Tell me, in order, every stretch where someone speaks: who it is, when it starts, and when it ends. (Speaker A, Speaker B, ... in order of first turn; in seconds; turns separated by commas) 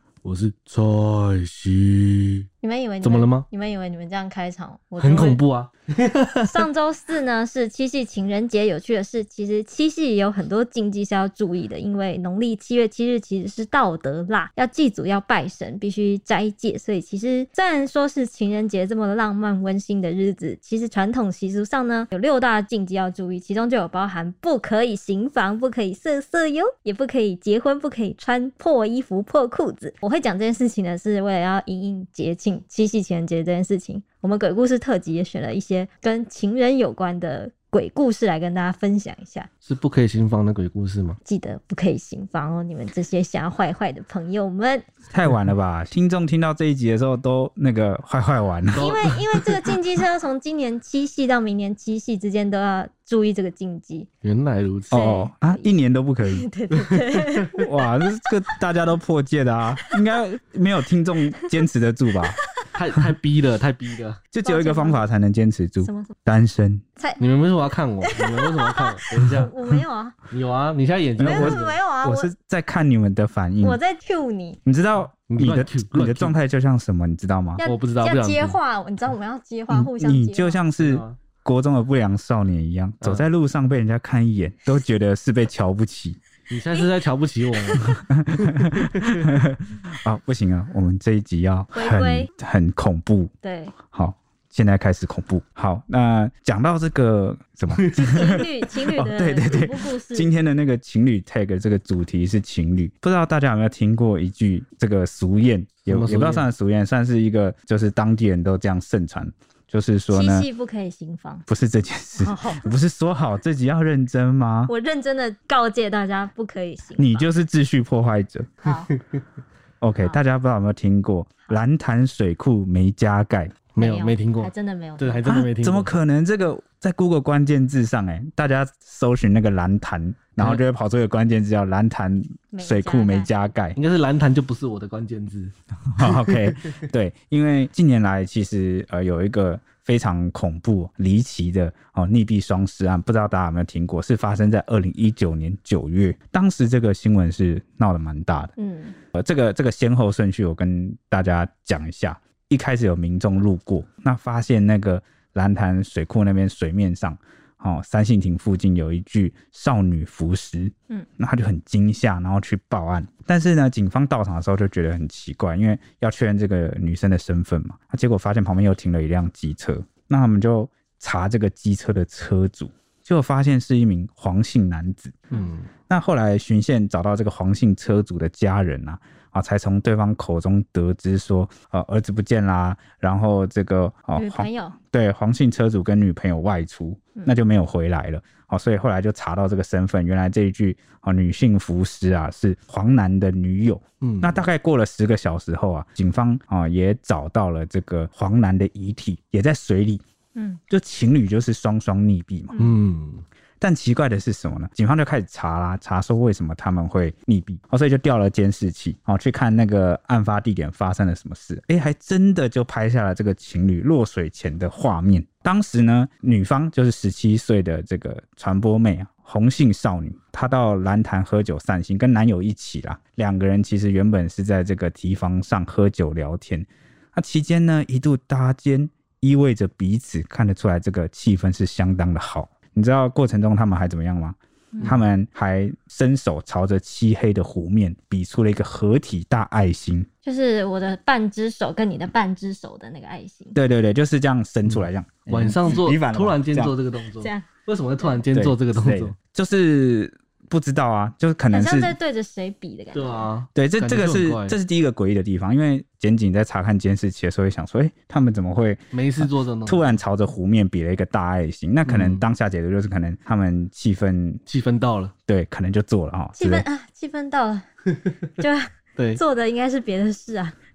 Speaker A: 0.2-2.5, Speaker B: 2.6-5.4, Speaker A: 3.0-3.5, Speaker A: 5.0-6.6, Speaker B: 6.4-39.5, Speaker A: 39.6-41.2, Speaker B: 41.2-44.9, Speaker C: 45.1-48.9, Speaker A: 48.7-49.7, Speaker B: 48.8-54.1, Speaker A: 54.2-55.0, Speaker C: 54.9-56.5, Speaker B: 54.9-55.7, Speaker B: 56.2-58.3, Speaker A: 56.8-57.5, Speaker C: 57.6-62.4, Speaker A: 62.7-64.2, Speaker C: 64.3-66.8, Speaker B: 64.4-65.0, Speaker B: 65.8-66.1, Speaker A: 67.2-69.5, Speaker B: 68.0-70.2, Speaker A: 70.3-71.8, Speaker C: 71.2-73.8, Speaker B: 71.2-72.3, Speaker B: 73.6-74.6, Speaker C: 74.6-77.6, Speaker A: 75.3-76.3, Speaker B: 77.6-80.6, Speaker A: 77.6-78.6, Speaker C: 79.7-86.2, Speaker A: 80.8-81.2, Speaker A: 86.5-89.2, Speaker B: 87.6-88.0, Speaker C: 88.0-93.3, Speaker B: 91.7-92.3, Speaker B: 93.4-93.7, Speaker C: 93.9-110.5, Speaker B: 97.9-100.3, Speaker A: 105.9-106.5, Speaker B: 110.1-111.4, Speaker C: 111.5-114.7, Speaker B: 112.2-112.7, Speaker B: 114.7-117.3, Speaker C: 117.0-118.6, Speaker B: 118.6-118.9, Speaker C: 119.8-123.6, Speaker A: 123.7-125.9, Speaker B: 123.8-125.3, Speaker C: 125.2-133.8, Speaker B: 132.5-133.3, Speaker A: 133.7-136.8, Speaker C: 135.9-148.5, Speaker B: 148.6-148.9, Speaker C: 149.1-175.2, Speaker A: 175.3-175.7, Speaker C: 175.9-200.0, Speaker B: 184.2-184.8, Speaker A: 194.0-194.4, Speaker C: 200.7-202.5, Speaker B: 202.5-202.8, Speaker A: 202.6-203.2, Speaker C: 203.6-240.1, Speaker B: 240.2-243.6, Speaker C: 243.5-246.7, Speaker A: 244.7-249.1, Speaker B: 247.2-247.5, Speaker C: 248.3-251.9, Speaker B: 251.5-253.3, Speaker A: 252.9-254.6, Speaker C: 253.5-264.4, Speaker A: 258.9-259.9, Speaker A: 261.8-262.2, Speaker A: 264.5-265.1, Speaker C: 265.3-266.6, Speaker B: 266.4-267.7, Speaker B: 268.4-270.5